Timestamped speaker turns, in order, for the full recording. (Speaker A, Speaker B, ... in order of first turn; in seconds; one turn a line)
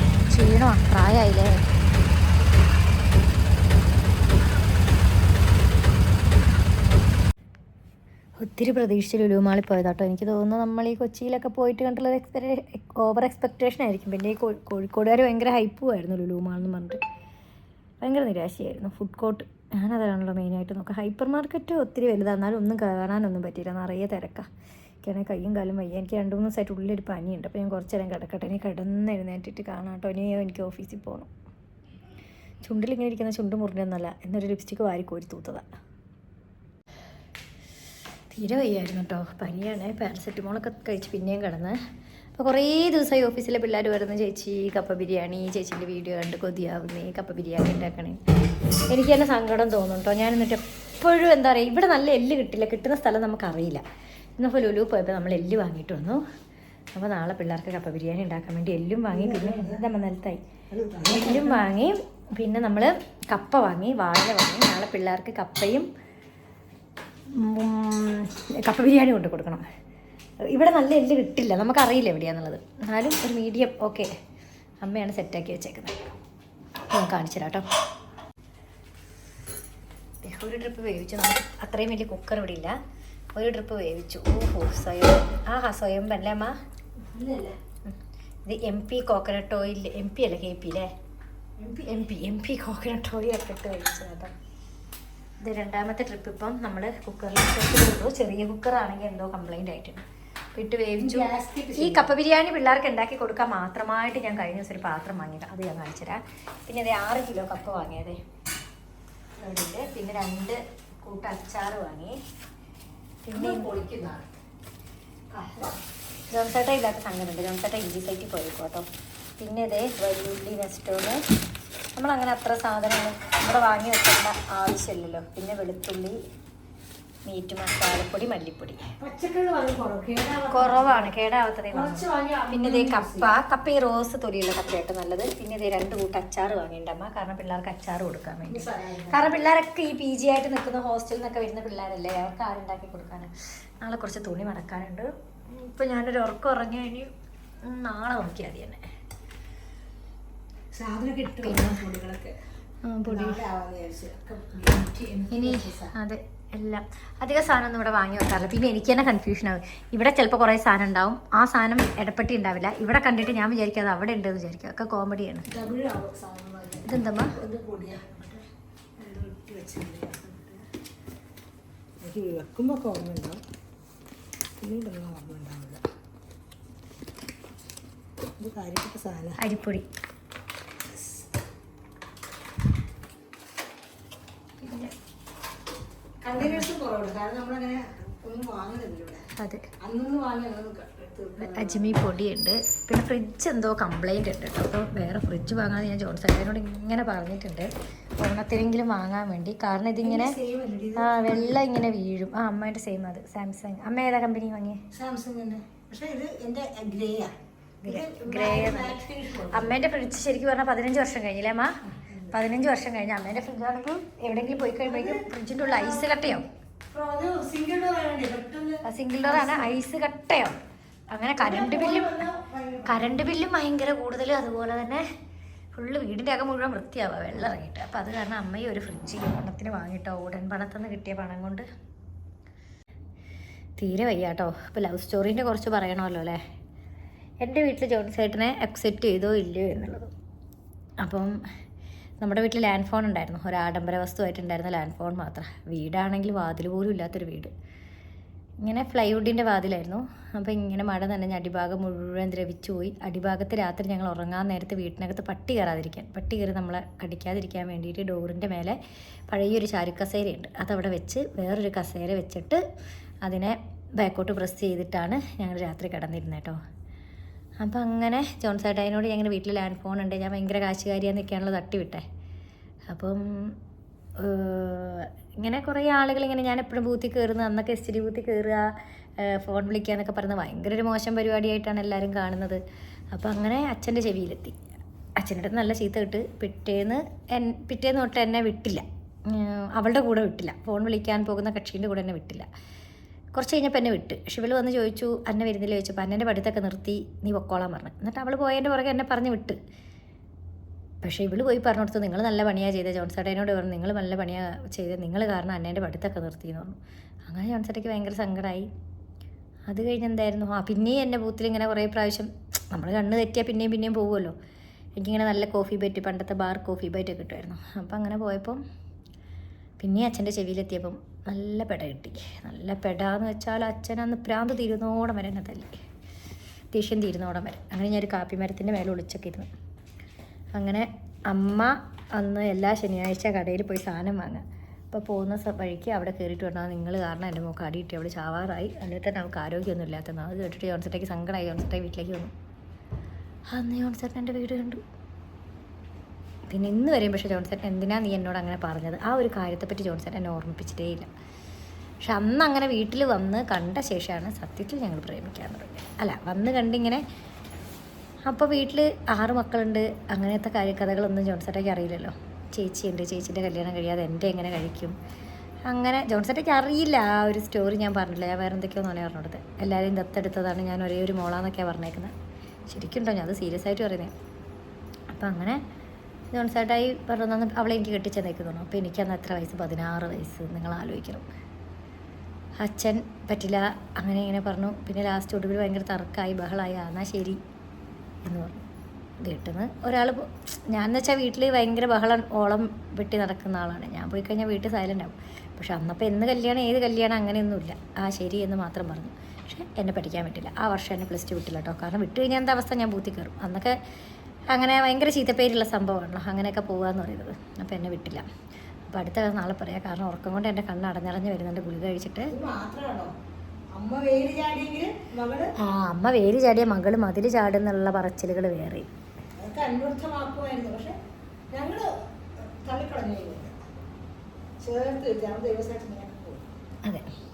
Speaker A: 0.2-1.6
Speaker A: 8.4-17.0
Speaker A: 18.0-24.5
Speaker A: 25.0-31.3
Speaker A: 32.6-35.6
Speaker A: 38.3-41.8
Speaker A: 42.4-48.2
Speaker A: 48.9-53.8
Speaker A: 54.4-56.2
Speaker A: 56.9-60.4
Speaker B: 59.1-59.8
Speaker B: 60.7-61.7
Speaker A: 61.1-65.9
Speaker A: 67.4-69.6
Speaker A: 70.5-74.1
Speaker A: 74.8-75.9
Speaker A: 76.9-77.7
Speaker A: 80.2-82.8
Speaker A: 83.3-86.5
Speaker B: 87.1-87.6
Speaker A: 88.5-90.9
Speaker A: 91.6-94.3
Speaker A: 95.4-100.0
Speaker A: 100.5-108.2
Speaker B: 101.0-102.1
Speaker A: 109.4-112.2
Speaker A: 113.3-113.7
Speaker B: 113.3-114.3
Speaker B: 115.3-115.8
Speaker A: 116.3-118.8
Speaker A: 119.4-121.2
Speaker A: 122.0-126.2
Speaker A: 127.2-128.8
Speaker B: 129.0-131.1
Speaker A: 130.5-147.1
Speaker B: 131.7-133.3
Speaker B: 138.5-139.3
Speaker A: 147.6-148.8
Speaker B: 150.7-152.3
Speaker A: 151.3-151.8
Speaker A: 152.8-153.4
Speaker B: 153.1-155.9
Speaker A: 155.3-165.5
Speaker B: 165.5-168.4
Speaker A: 166.8-167.3
Speaker B: 169.0-170.6
Speaker B: 172.0-173.4
Speaker B: 174.6-175.8
Speaker B: 178.4-179.4
Speaker A: 179.4-179.9
Speaker B: 180.9-181.2
Speaker A: 184.6-184.9
Speaker B: 186.2-189.2
Speaker A: 186.4-186.7
Speaker A: 189.4-189.6
Speaker B: 189.8-192.0
Speaker A: 191.4-200.4
Speaker B: 200.0-201.6
Speaker A: 201.0-204.8
Speaker B: 204.9-209.8
Speaker A: 207.8-209.0
Speaker A: 209.5-211.7
Speaker A: 212.3-216.4
Speaker B: 214.8-219.8
Speaker A: 218.8-220.6
Speaker A: 221.1-222.2
Speaker B: 221.4-223.1
Speaker A: 222.8-225.0
Speaker A: 225.8-231.7
Speaker A: 233.8-236.4
Speaker A: 237.4-240.1
Speaker A: 241.0-241.3
Speaker A: 242.2-247.5
Speaker A: 248.6-258.8
Speaker A: 259.3-262.6
Speaker A: 263.2-266.6
Speaker A: 267.6-272.0
Speaker A: 272.9-273.6
Speaker A: 274.2-278.7
Speaker A: 279.2-282.6
Speaker A: 283.1-284.6
Speaker A: 285.2-292.5
Speaker A: 293.3-299.6
Speaker A: 301.0-308.7
Speaker A: 309.7-314.3
Speaker A: 315.0-318.6
Speaker A: 319.8-325.7
Speaker A: 326.7-329.5
Speaker A: 330.6-342.3
Speaker A: 343.5-344.8
Speaker A: 346.5-351.1
Speaker A: 352.0-357.0
Speaker A: 358.3-364.9
Speaker A: 365.7-372.1
Speaker A: 372.7-374.1
Speaker A: 375.1-375.6
Speaker A: 376.3-381.3
Speaker A: 382.6-387.4
Speaker A: 388.2-388.6
Speaker A: 389.2-403.7
Speaker A: 404.5-408.2
Speaker A: 408.9-412.3
Speaker B: 412.3-413.1
Speaker B: 413.8-415.5
Speaker A: 415.6-418.9
Speaker B: 419.4-420.9
Speaker B: 421.5-421.9
Speaker B: 422.6-423.6
Speaker B: 424.6-426.4